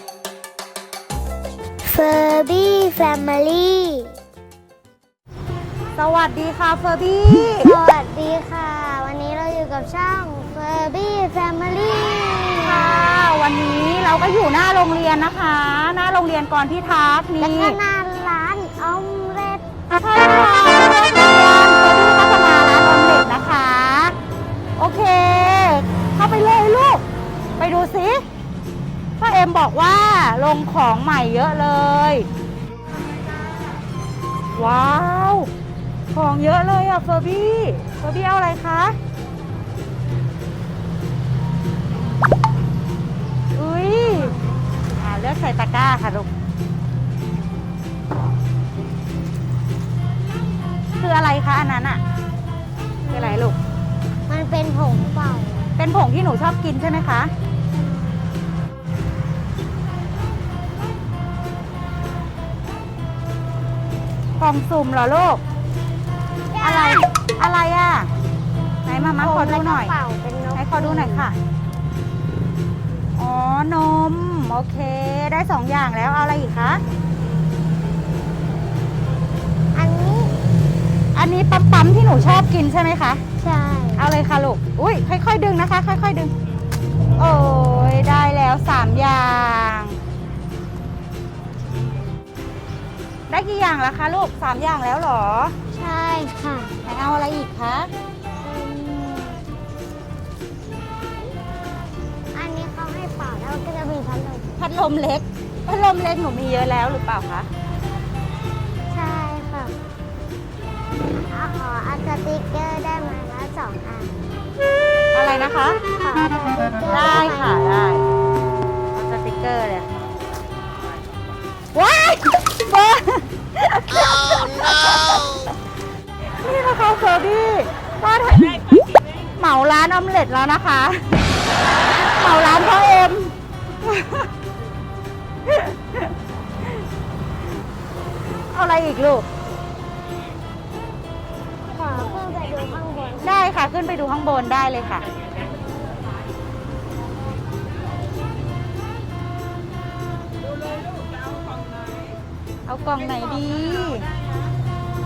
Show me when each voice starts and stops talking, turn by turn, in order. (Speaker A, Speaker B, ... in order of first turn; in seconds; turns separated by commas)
Speaker A: 1.8-4.2, Speaker B: 6.0-7.8, Speaker A: 7.5-13.1, Speaker B: 12.6-17.8, Speaker A: 17.4-19.7, Speaker B: 19.9-24.1, Speaker B: 24.8-27.0, Speaker B: 27.6-28.2, Speaker B: 29.2-32.3, Speaker B: 34.5-35.5, Speaker B: 36.1-39.0, Speaker B: 43.5-44.4, Speaker B: 45.0-46.3, Speaker B: 51.0-52.0, Speaker A: 53.0-53.5, Speaker B: 53.1-53.6, Speaker A: 54.3-55.7, Speaker B: 55.8-57.3, Speaker A: 57.7-58.2, Speaker B: 64.4-65.4, Speaker A: 66.5-67.1, Speaker B: 66.6-68.1, Speaker B: 68.8-69.9, Speaker A: 69.2-71.3, Speaker B: 70.5-71.3, Speaker B: 73.2-76.8, Speaker A: 79.7-80.3, Speaker B: 81.1-83.2, Speaker A: 83.4-84.1, Speaker B: 84.0-86.3, Speaker B: 87.2-90.0, Speaker B: 93.3-95.5, Speaker A: 95.7-96.7, Speaker B: 96.8-97.9, Speaker A: 98.4-99.4, Speaker A: 102.3-104.5, Speaker B: 104.6-107.5, Speaker A: 108.9-109.8, Speaker A: 111.1-114.2, Speaker B: 115.1-115.8, Speaker A: 116.0-117.6, Speaker B: 116.8-118.0, Speaker B: 118.9-119.9, Speaker B: 121.7-125.5, Speaker B: 126.2-128.7, Speaker B: 129.3-131.2, Speaker B: 131.8-134.3, Speaker B: 135.5-136.1, Speaker B: 138.5-139.2, Speaker A: 141.7-143.3, Speaker B: 143.2-145.0, Speaker B: 152.7-154.1